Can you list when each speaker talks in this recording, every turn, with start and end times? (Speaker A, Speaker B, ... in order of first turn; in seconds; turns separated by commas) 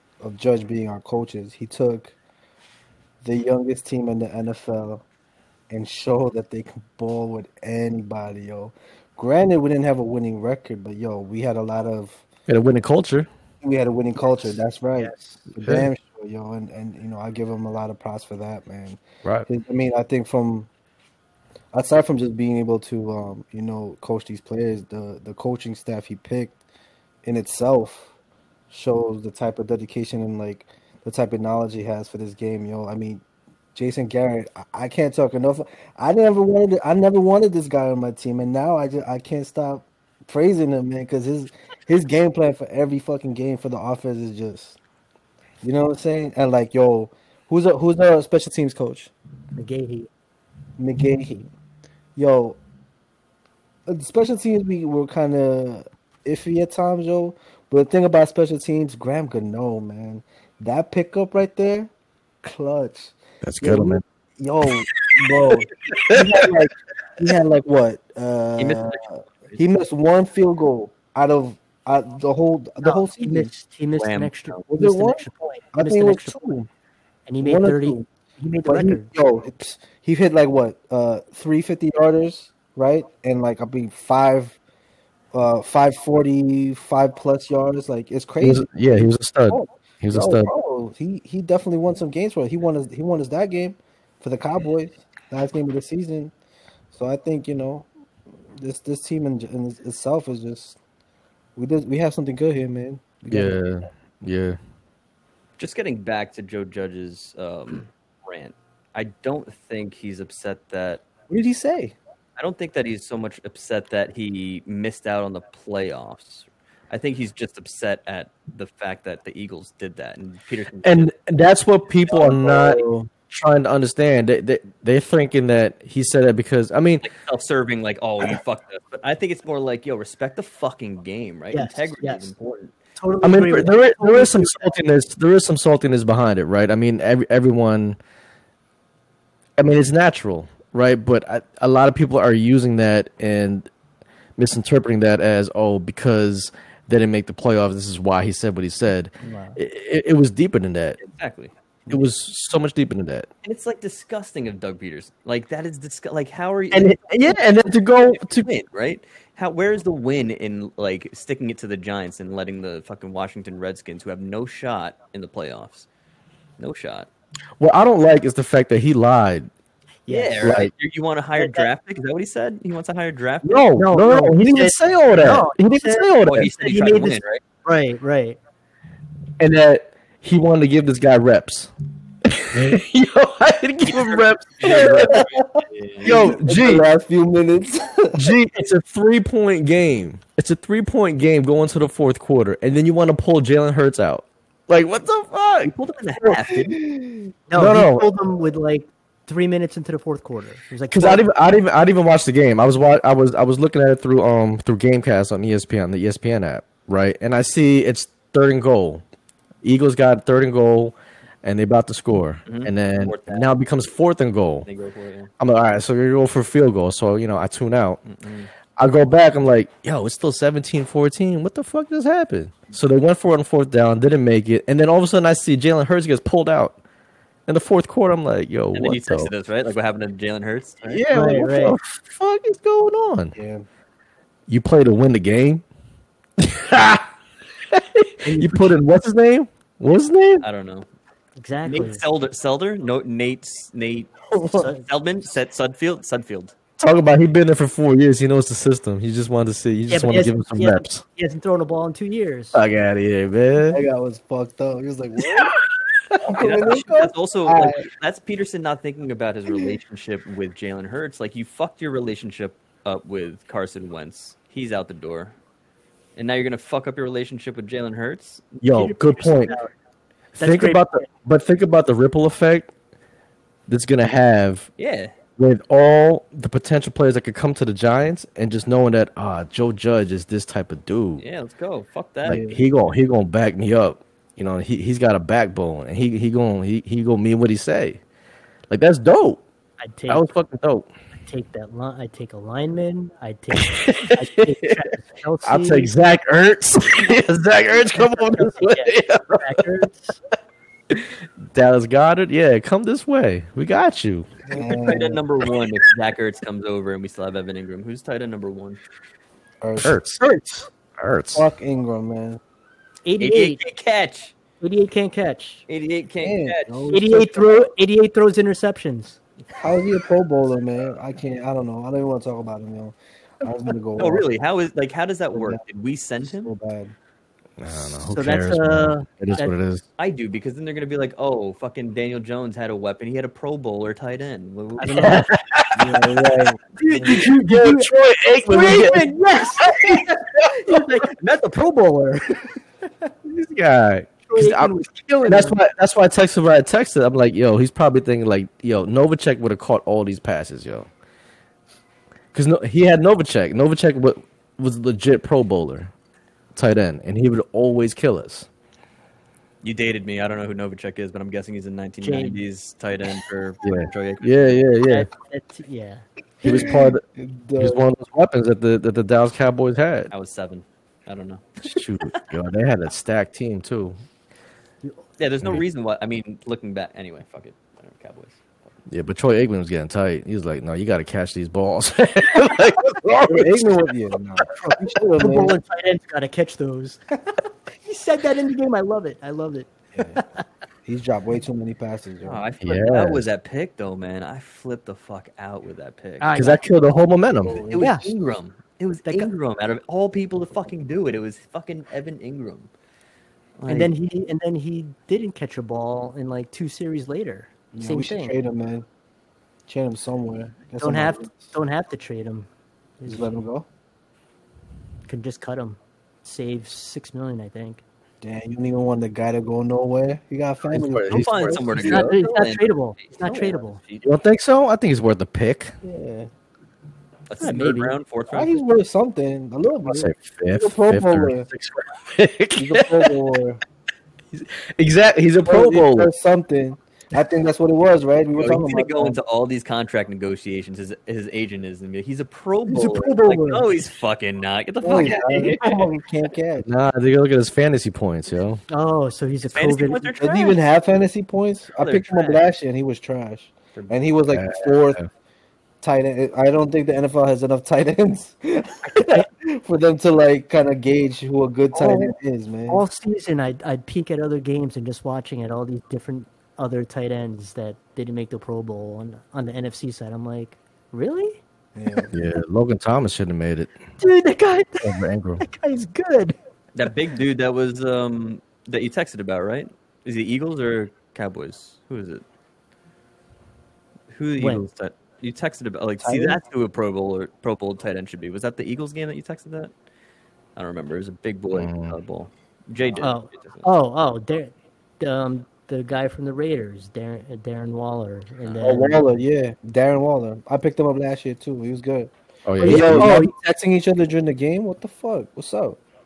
Speaker A: 0.2-2.1, Speaker A: 3.2-5.0, Speaker A: 5.7-12.2, Speaker B: 12.5-13.3, Speaker A: 13.6-20.7, Speaker C: 15.0-15.4, Speaker B: 15.6-15.9, Speaker A: 21.7-26.6, Speaker A: 27.2-28.1, Speaker A: 28.7-33.2, Speaker A: 33.7-44.8, Speaker A: 45.6-49.1, Speaker C: 49.5-50.1, Speaker A: 50.8-51.5, Speaker A: 52.1-52.6, Speaker A: 53.9-61.9, Speaker A: 62.4-73.5, Speaker B: 63.4-64.0, Speaker B: 65.0-66.4, Speaker D: 68.6-69.6, Speaker C: 72.8-76.5, Speaker D: 74.0-74.6, Speaker A: 74.7-76.7, Speaker C: 77.2-79.1, Speaker A: 77.4-78.1, Speaker A: 78.6-84.6, Speaker A: 85.3-96.3, Speaker B: 88.4-90.5, Speaker A: 96.9-97.9, Speaker A: 98.5-100.8, Speaker A: 101.5-103.6, Speaker B: 103.3-104.6, Speaker D: 105.6-111.0, Speaker A: 111.3-112.0, Speaker D: 112.4-121.1, Speaker B: 120.8-127.1, Speaker A: 122.1-123.1, Speaker D: 127.0-132.7, Speaker C: 131.5-132.3, Speaker C: 133.0-134.7, Speaker B: 133.2-138.0, Speaker B: 139.6-143.7, Speaker B: 144.4-151.0, Speaker C: 149.2-149.6, Speaker D: 151.0-151.5, Speaker B: 151.9-153.3, Speaker D: 153.4-157.4, Speaker B: 156.7-158.5, Speaker D: 158.1-165.9, Speaker D: 166.6-167.1, Speaker B: 167.6-169.5, Speaker C: 170.1-170.5, Speaker D: 170.1-173.7, Speaker B: 170.4-170.7, Speaker C: 171.4-171.7, Speaker B: 173.4-176.5, Speaker C: 173.8-178.4, Speaker D: 176.2-177.4, Speaker B: 179.4-181.7, Speaker B: 182.3-185.2, Speaker D: 183.8-186.2, Speaker A: 184.7-188.3, Speaker B: 186.0-186.8, Speaker B: 188.1-195.7, Speaker D: 195.6-196.8, Speaker A: 196.7-197.3, Speaker C: 197.5-201.2, Speaker B: 197.5-198.1, Speaker B: 200.9-209.0, Speaker B: 209.6-214.7, Speaker D: 212.4-213.5, Speaker D: 214.6-215.3, Speaker B: 215.4-218.0, Speaker D: 218.1-218.5, Speaker B: 218.8-226.8, Speaker B: 227.5-229.3, Speaker D: 228.7-231.0, Speaker B: 230.8-233.3, Speaker C: 231.1-231.8, Speaker A: 233.3-233.6, Speaker B: 234.5-235.6, Speaker B: 236.4-237.1, Speaker B: 237.7-240.4, Speaker C: 238.2-238.7, Speaker D: 240.4-240.9, Speaker C: 241.4-242.0, Speaker D: 241.6-246.5, Speaker A: 244.3-244.7, Speaker C: 244.5-244.8, Speaker B: 246.8-251.0, Speaker C: 249.9-252.6, Speaker B: 252.5-253.8, Speaker A: 253.7-255.6, Speaker B: 255.3-255.6, Speaker A: 256.2-257.8, Speaker D: 256.3-265.4, Speaker D: 266.1-268.6, Speaker B: 268.6-269.6, Speaker C: 268.7-269.7, Speaker B: 270.4-272.7, Speaker C: 270.4-271.1, Speaker B: 273.7-274.7, Speaker D: 274.8-275.1, Speaker B: 275.4-281.2, Speaker D: 281.2-282.6, Speaker B: 282.2-288.0, Speaker A: 282.2-282.6, Speaker B: 288.7-289.4, Speaker C: 289.8-290.2, Speaker B: 290.1-290.9, Speaker C: 291.2-295.9, Speaker B: 293.5-294.9, Speaker B: 295.4-299.6, Speaker C: 297.9-300.2, Speaker B: 300.9-304.3, Speaker A: 304.5-305.2, Speaker D: 304.5-308.8, Speaker A: 309.6-309.9, Speaker B: 309.8-310.4, Speaker C: 310.2-310.5, Speaker B: 311.0-311.4, Speaker A: 311.3-312.4, Speaker C: 313.0-313.6, Speaker D: 313.2-314.3, Speaker C: 314.6-315.6, Speaker D: 315.7-316.9, Speaker A: 316.2-317.7, Speaker C: 316.9-319.2, Speaker A: 319.6-324.2, Speaker D: 324.0-326.5, Speaker A: 325.3-325.6, Speaker A: 326.2-326.9, Speaker B: 327.6-329.8, Speaker C: 327.8-329.5, Speaker D: 330.0-335.3, Speaker C: 334.8-335.3, Speaker B: 334.9-340.7, Speaker A: 335.7-337.3, Speaker C: 336.8-337.9, Speaker C: 338.4-342.5, Speaker B: 343.2-350.9, Speaker C: 344.3-345.6, Speaker B: 352.3-355.9, Speaker B: 356.5-358.5, Speaker D: 359.6-364.6, Speaker C: 362.0-362.4, Speaker B: 363.6-365.1, Speaker C: 364.9-366.0, Speaker B: 366.4-367.0, Speaker A: 366.4-367.8, Speaker B: 367.6-370.1, Speaker D: 370.1-371.8, Speaker B: 371.6-373.9, Speaker D: 375.2-378.4, Speaker B: 378.9-383.7, Speaker A: 383.1-385.6, Speaker C: 384.5-387.1, Speaker C: 387.8-390.4, Speaker A: 390.9-392.4, Speaker D: 392.2-396.3, Speaker B: 392.6-393.2, Speaker C: 396.2-396.6, Speaker B: 396.3-397.6, Speaker A: 397.4-397.9, Speaker D: 397.4-402.7, Speaker C: 397.8-398.1, Speaker C: 399.1-399.3, Speaker D: 403.6-403.9, Speaker C: 403.7-408.4, Speaker A: 407.7-408.9, Speaker A: 409.7-411.5, Speaker C: 410.8-412.5, Speaker C: 413.0-413.3, Speaker A: 413.1-413.7, Speaker C: 415.1-417.8, Speaker A: 418.2-421.7, Speaker B: 420.7-422.0, Speaker D: 421.1-424.1, Speaker C: 421.8-423.8, Speaker B: 424.0-425.7, Speaker A: 425.8-426.3, Speaker D: 427.3-428.6, Speaker C: 427.4-428.0, Speaker A: 428.3-431.5, Speaker B: 429.8-433.1, Speaker A: 432.6-433.6, Speaker B: 434.3-436.1, Speaker A: 435.4-439.2, Speaker D: 438.3-445.8, Speaker C: 442.7-443.7, Speaker A: 444.8-446.7, Speaker B: 446.6-448.6, Speaker C: 448.7-450.1, Speaker D: 449.5-450.6, Speaker A: 450.2-455.0, Speaker D: 451.8-452.5, Speaker B: 454.3-455.1, Speaker A: 455.8-462.8, Speaker C: 459.0-459.2, Speaker C: 461.7-462.1, Speaker C: 462.7-471.4, Speaker A: 471.7-472.1, Speaker B: 472.1-473.7, Speaker C: 474.0-476.4, Speaker B: 474.8-475.4, Speaker D: 476.7-482.2, Speaker D: 484.1-489.7, Speaker C: 484.4-484.6, Speaker A: 486.0-486.4, Speaker D: 490.6-493.6, Speaker B: 491.5-491.9, Speaker C: 493.0-499.0, Speaker D: 498.4-498.8, Speaker A: 498.6-502.1, Speaker B: 502.4-503.2, Speaker C: 502.6-503.3, Speaker A: 502.6-505.8